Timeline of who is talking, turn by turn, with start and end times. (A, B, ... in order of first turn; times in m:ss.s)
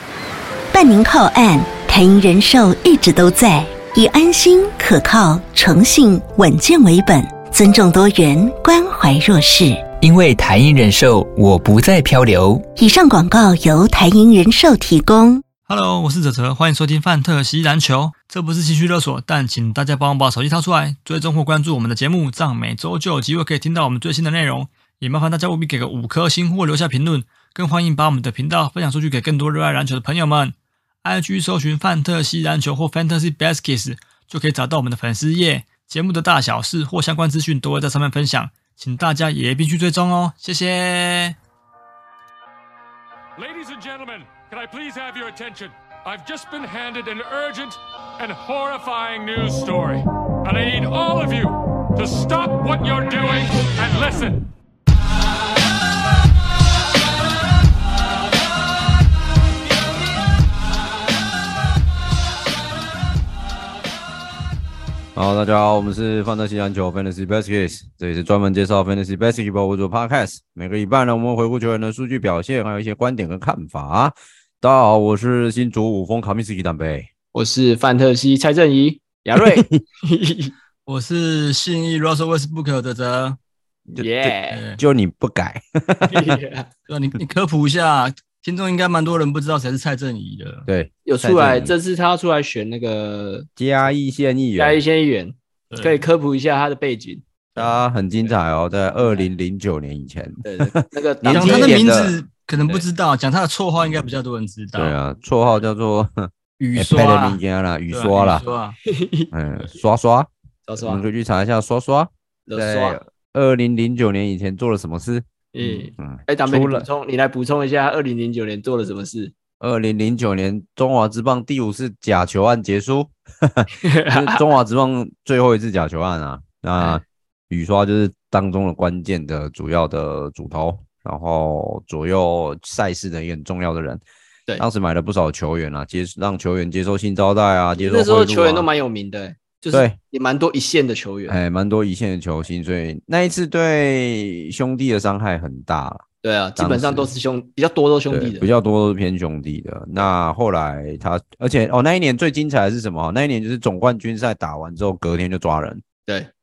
0:00.7-0:09.8 A
0:10.0-0:12.7 B
0:12.7-0:15.4 A
0:15.7-0:41.4 C
0:43.4-0:54.5 D
1:05.1-1:17.1 E
1:17.3-1:20.5 F
1:19.4-1:19.8 E
1:20.9-1:23.4 C
1:24.0-1:24.6 F
1:24.0-1:26.4 E
1:24.5-1:24.8 C
1:26.0-1:26.7 F
1:26.9-1:30.7 C
1:30.7-1:31.7 E
1:31.0-1:33.5 F
1:33.6-1:34.8 E
1:34.6-1:38.3 F
1:35.7-1:36.0 C
1:37.6-1:42.2 E
1:39.0-1:39.2 F
1:40.4-1:41.8 F
1:41.3-1:44.9 C
1:42.6-1:42.8 F
1:44.8-1:48.4 E
1:46.6-1:47.4 C
1:47.9-1:48.8 C
1:48.8-1:49.3 F
1:49.3-1:56.9 E
1:50.6-1:51.0 F
1:52.5-1:53.0 F
1:55.5-1:59.3 F
1:59.6-2:14.0 E
2:03.8-2:04.4 F
2:06.8-2:07.0 F
2:14.6-2:18.7 E
2:17.8-2:21.4 F
2:19.7-2:20.0 E
2:21.3-2:26.0 E
2:26.2-2:28.5 F
2:26.6-2:27.1 E
2:28.1-2:35.8 E